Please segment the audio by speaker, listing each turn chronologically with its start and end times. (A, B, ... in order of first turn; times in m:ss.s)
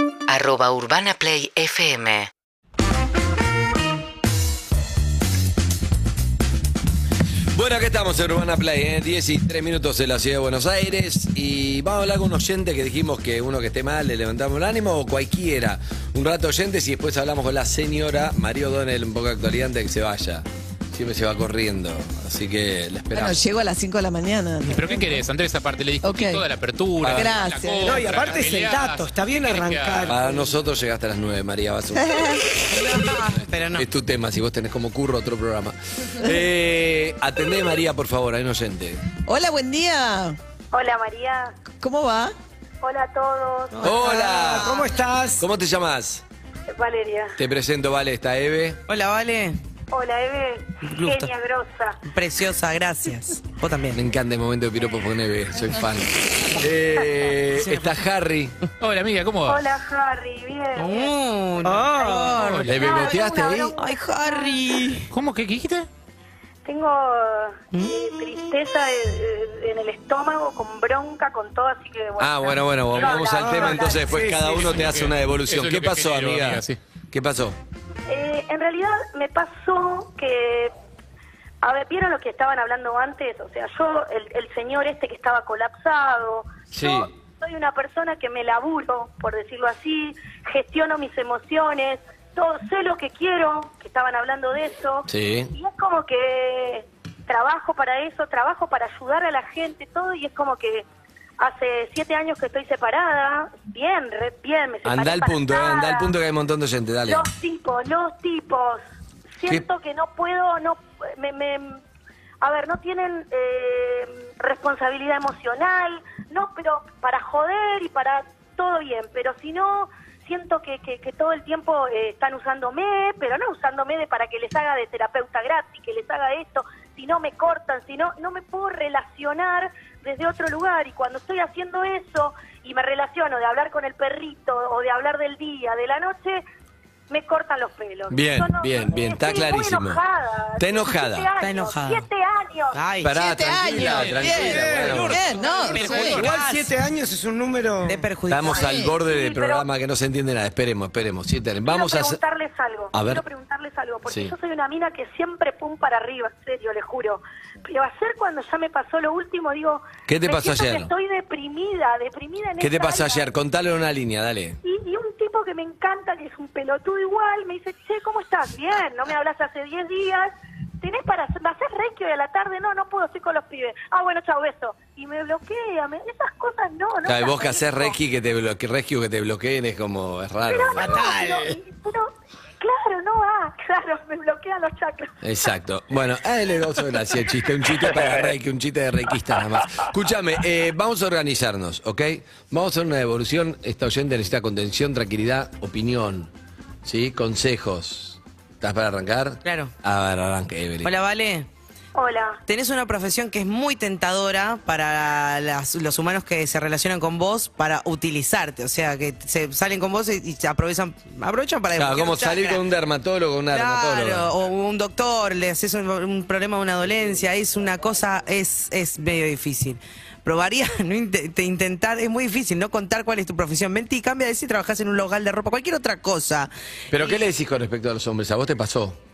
0:00.3-0:02.3 A
0:07.5-0:23.4 B
0:23.1-0:25.2 C
0:24.7-0:30.1 D
0:26.0-0:26.4 C
0:27.0-0:27.4 B
0:27.0-0:28.2 C
0:27.8-0:30.5 E
0:30.1-0:39.0 B
0:31.9-0:32.6 C
0:32.7-0:33.8 F
0:39.2-0:40.4 C
0:40.7-0:41.5 G
0:41.8-0:42.3 C
0:42.8-0:43.9 G
0:43.8-0:44.8 B
0:43.9-0:45.4 E
0:44.5-0:44.9 G
0:45.4-0:46.2 B
0:46.7-0:47.4 G
0:47.4-0:48.8 B
0:48.9-0:49.6 F
0:49.9-0:52.0 G
0:50.8-0:51.3 F
0:52.0-0:54.0 F
0:53.9-0:58.6 B
0:57.6-0:57.9 F
0:58.8-0:59.6 D
0:59.5-1:04.6 G
1:00.8-1:02.7 F
1:01.6-1:02.3 E
1:02.3-1:02.8 D
1:02.7-1:03.7 B
1:03.8-1:05.1 F
1:05.1-1:05.9 D
1:06.6-1:14.2 G
1:12.2-1:17.6 B
1:13.2-1:14.8 E
1:14.6-1:16.8 D
1:18.1-1:20.7 G
1:21.6-1:40.8 G
1:26.7-1:27.1 B
1:35.1-1:35.5 B
1:41.4-1:46.1 G
1:44.8-1:47.3 B
1:47.1-1:48.8 G
1:49.4-1:51.8 G
1:52.4-2:16.4 G
2:17.1-2:22.8 G
2:18.1-2:20.0 B
2:20.6-2:21.3 B
2:21.4-2:22.0 F
2:22.7-2:23.2 F
2:23.0-2:25.2 B
2:23.1-2:26.2 C
2:24.3-2:25.2 E
2:25.0-2:26.2 D
2:25.4-2:26.7 F
2:26.0-2:28.1 E
2:27.8-2:28.8 F
2:28.3-2:32.2 B
2:28.5-2:29.6 G
2:31.6-2:43.3 G
2:32.9-2:33.2 B
2:34.0-2:34.3 B
2:40.1-2:40.9 B
2:42.6-2:44.6 B
2:44.6-2:57.9 G
2:57.0-3:01.2 B
3:00.5-3:05.1 G
3:00.8-3:01.6 E
3:05.2-3:16.3 B
3:16.8-3:20.9 B
3:19.4-3:19.7 F
3:20.8-3:21.5 F
3:21.9-3:22.4 G
3:22.4-3:32.6 F
3:31.8-3:34.3 B
3:33.5-3:47.2 F
3:46.9-3:49.0 B